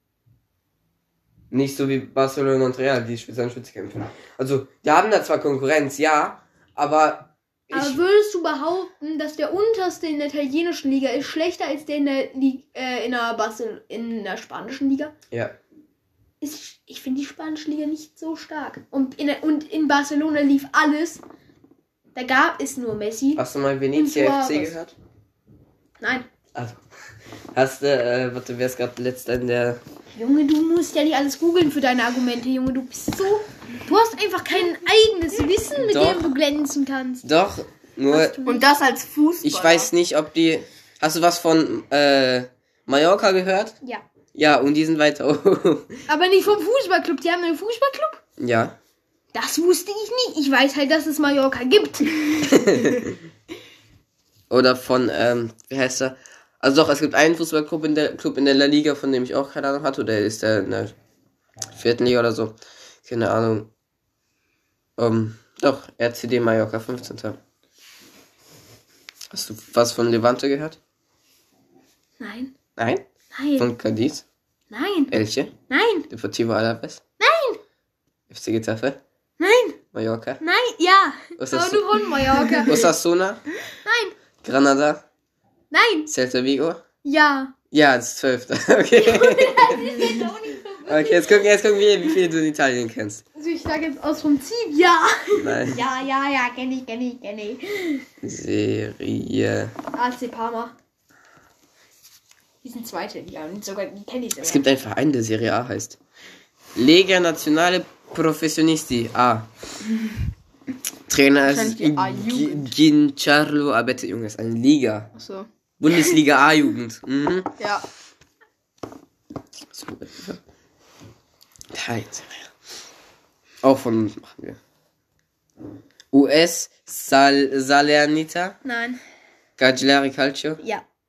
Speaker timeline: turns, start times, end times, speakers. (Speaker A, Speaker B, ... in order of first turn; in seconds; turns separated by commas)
Speaker A: 1.5-8.0, Speaker B: 7.7-15.1, Speaker B: 16.4-21.2, Speaker B: 22.1-23.4, Speaker A: 23.4-24.9, Speaker B: 23.9-24.8, Speaker B: 26.0-26.2, Speaker A: 26.5-26.8, Speaker A: 27.5-29.8, Speaker B: 30.1-37.2, Speaker A: 35.8-36.3, Speaker A: 37.2-38.4, Speaker B: 38.1-38.6, Speaker C: 38.4-39.9, Speaker A: 39.4-43.8, Speaker A: 44.3-46.0, Speaker B: 46.1-48.2, Speaker A: 48.4-48.8, Speaker B: 49.3-52.5, Speaker A: 52.4-53.2, Speaker A: 54.5-60.9, Speaker A: 61.7-63.7, Speaker A: 65.0-67.4, Speaker A: 69.3-70.8, Speaker B: 72.2-72.5, Speaker A: 72.8-73.0, Speaker B: 73.3-73.7, Speaker A: 73.6-74.2, Speaker B: 74.7-75.1, Speaker A: 75.1-75.5, Speaker B: 75.7-76.1, Speaker A: 76.1-77.0, Speaker B: 77.2-77.6, Speaker A: 78.3-79.0, Speaker B: 79.4-79.8, Speaker A: 79.9-80.4, Speaker B: 80.4-82.8, Speaker A: 81.4-83.4, Speaker B: 83.8-84.1, Speaker A: 84.4-85.0, Speaker B: 85.7-86.1, Speaker A: 86.1-86.8, Speaker B: 87.0-87.5, Speaker A: 87.7-90.1, Speaker B: 89.0-91.5, Speaker A: 90.9-93.2, Speaker B: 93.3-98.0, Speaker A: 95.4-95.8, Speaker A: 98.2-99.7, Speaker B: 99.9-100.7, Speaker B: 102.6-104.6, Speaker A: 104.4-106.0, Speaker A: 106.7-109.5, Speaker A: 111.1-115.1, Speaker C: 111.4-112.7, Speaker C: 115.1-115.5, Speaker A: 115.8-117.5, Speaker C: 117.6-117.8, Speaker A: 119.7-120.4, Speaker A: 121.7-122.5, Speaker A: 123.6-124.6, Speaker A: 126.1-128.6, Speaker B: 128.6-129.0, Speaker A: 129.6-130.6